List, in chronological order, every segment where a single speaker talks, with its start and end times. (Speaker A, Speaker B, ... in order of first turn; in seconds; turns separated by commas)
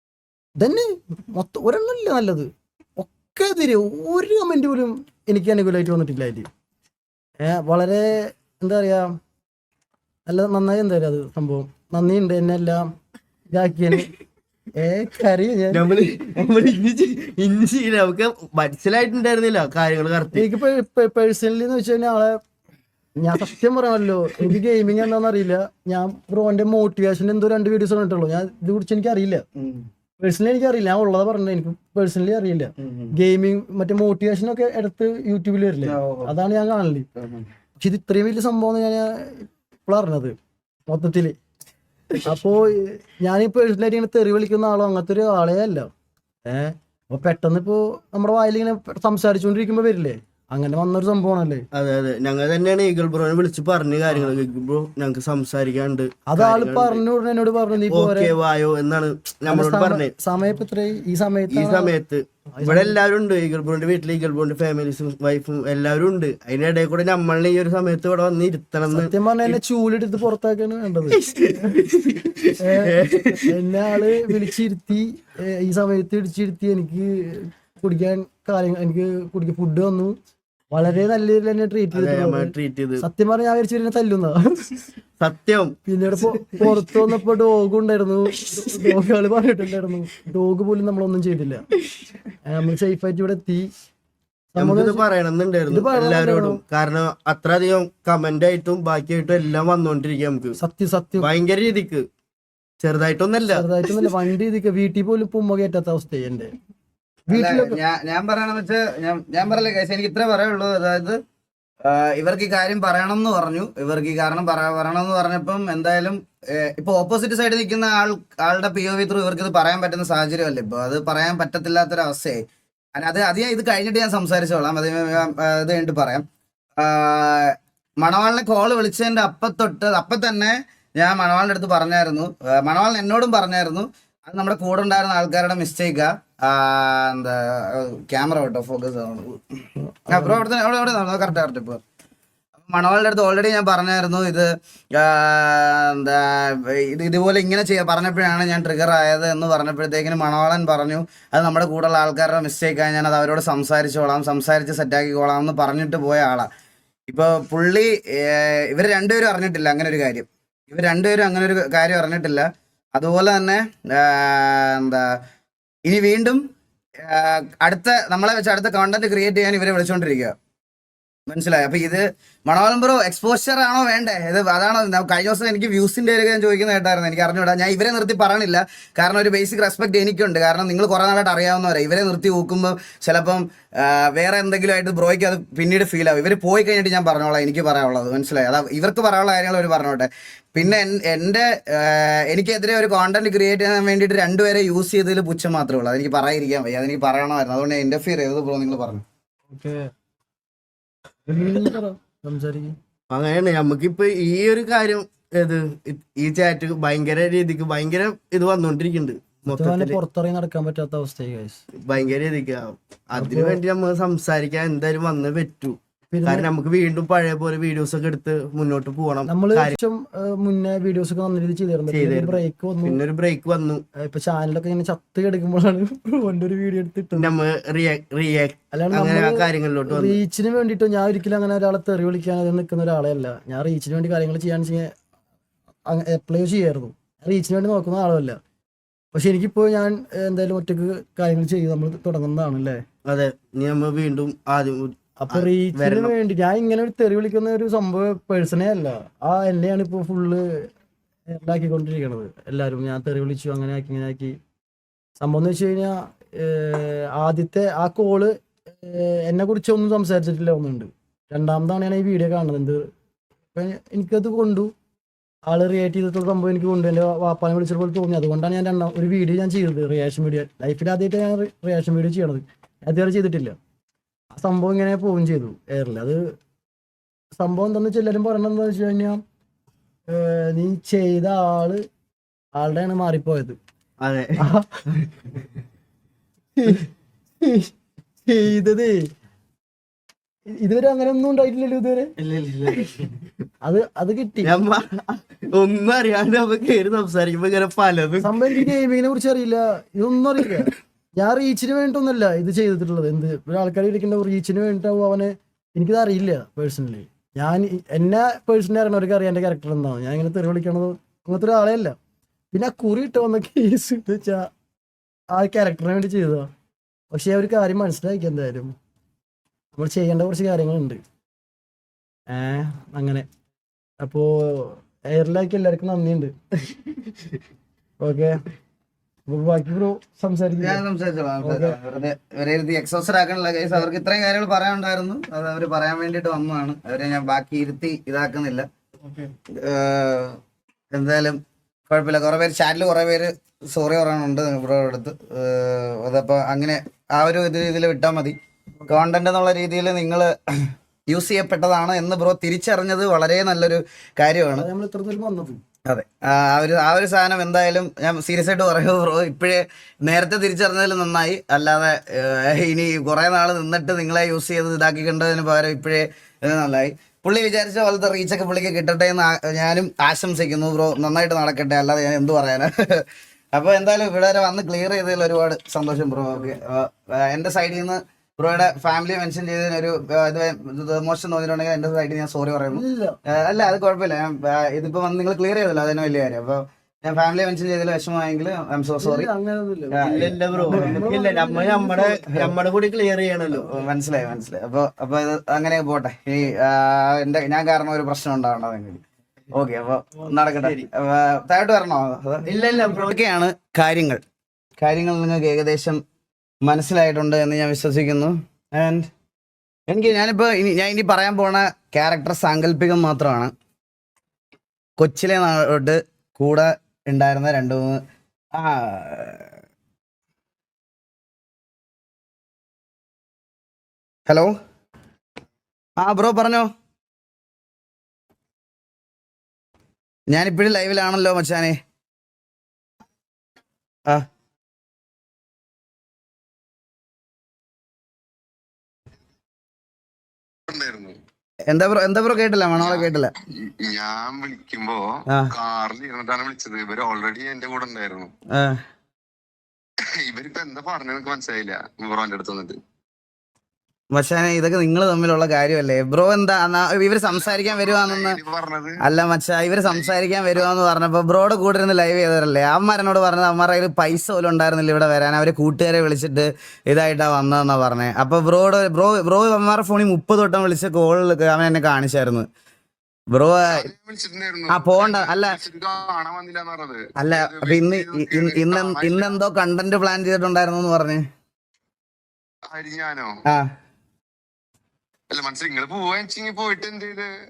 Speaker A: 0.6-6.5, Speaker A: 7.4-9.2, Speaker A: 10.2-12.9, Speaker A: 13.5-14.1, Speaker A: 14.8-15.8, Speaker B: 15.7-20.4, Speaker A: 20.3-22.4, Speaker A: 23.2-29.4, Speaker C: 29.6-29.9, Speaker A: 30.2-37.1, Speaker C: 32.8-33.1, Speaker C: 35.9-36.3, Speaker C: 37.2-37.5, Speaker A: 37.8-40.4, Speaker A: 40.9-41.4, Speaker A: 42.2-45.9, Speaker A: 46.5-51.6, Speaker B: 51.7-57.0, Speaker A: 56.3-58.3, Speaker B: 57.9-60.1, Speaker A: 59.5-61.9, Speaker B: 61.5-69.6, Speaker A: 62.5-62.9, Speaker A: 68.9-71.8, Speaker B: 71.1-74.4, Speaker A: 72.6-80.1, Speaker A: 80.7-84.8, Speaker B: 81.9-83.0, Speaker B: 85.2-87.1, Speaker A: 85.8-91.7, Speaker B: 88.4-88.9, Speaker A: 92.4-93.7, Speaker A: 94.5-95.0, Speaker B: 94.6-100.6, Speaker A: 95.7-96.6, Speaker A: 100.6-101.3, Speaker B: 101.2-102.1, Speaker B: 102.8-104.1, Speaker A: 103.5-106.5, Speaker A: 107.3-107.8, Speaker C: 107.3-111.2, Speaker C: 111.8-126.3, Speaker C: 126.8-139.4, Speaker A: 139.8-140.4, Speaker C: 140.1-141.8, Speaker C: 142.6-156.5, Speaker C: 157.1-165.2, Speaker C: 165.8-166.4, Speaker C: 167.0-170.4, Speaker C: 171.3-199.0, Speaker A: 199.5-199.9, Speaker A: 201.3-202.8, Speaker B: 203.1-210.0, Speaker A: 209.5-211.6, Speaker B: 211.8-219.8, Speaker A: 213.2-213.6, Speaker A: 216.1-216.5, Speaker A: 219.3-223.0, Speaker B: 221.9-223.8, Speaker A: 223.9-227.3, Speaker B: 227.2-230.2, Speaker A: 228.7-234.9, Speaker A: 235.9-238.4, Speaker A: 239.1-242.8, Speaker B: 243.1-246.1, Speaker A: 245.2-250.7, Speaker A: 251.3-254.4, Speaker A: 255.2-262.9, Speaker A: 263.5-264.7, Speaker A: 265.5-273.6, Speaker A: 274.3-276.2, Speaker A: 277.4-279.2, Speaker A: 280.1-281.8, Speaker A: 282.6-283.6, Speaker B: 284.0-284.4, Speaker A: 284.4-284.9, Speaker A: 286.6-286.9, Speaker A: 287.4-287.7, Speaker A: 288.2-289.1, Speaker A: 290.6-292.1, Speaker B: 292.2-293.1, Speaker A: 293.6-294.5, Speaker B: 294.4-298.7, Speaker A: 298.2-311.9, Speaker A: 312.5-314.5, Speaker A: 315.3-316.5, Speaker A: 317.1-318.7, Speaker A: 319.8-321.0, Speaker A: 322.3-323.3, Speaker A: 324.0-326.7, Speaker A: 328.0-328.4, Speaker A: 329.3-330.8, Speaker C: 330.6-338.7, Speaker A: 331.4-331.8, Speaker C: 339.5-340.4, Speaker C: 340.9-348.4, Speaker C: 348.9-354.7, Speaker A: 354.6-355.6, Speaker C: 355.9-389.3, Speaker A: 382.7-383.2, Speaker A: 389.0-392.2, Speaker C: 389.9-391.0, Speaker B: 390.0-393.8, Speaker C: 393.6-404.2, Speaker B: 400.5-400.9, Speaker B: 402.4-403.2, Speaker C: 404.8-406.0, Speaker C: 406.6-409.1, Speaker C: 409.9-413.5, Speaker C: 415.0-418.0, Speaker C: 418.5-419.6, Speaker C: 424.2-424.5, Speaker C: 426.0-426.7, Speaker C: 430.3-431.8, Speaker D: 440.7-441.2, Speaker C: 441.7-443.3, Speaker D: 442.8-443.1, Speaker D: 443.6-448.3, Speaker C: 448.5-448.8, Speaker D: 450.0-452.8, Speaker C: 454.1-458.4, Speaker D: 457.3-459.0, Speaker C: 459.0-472.5, Speaker D: 459.8-460.6, Speaker C: 473.3-473.9, Speaker D: 473.7-479.4, Speaker C: 474.7-475.6, Speaker C: 477.2-481.3, Speaker D: 482.7-483.4, Speaker D: 485.3-487.3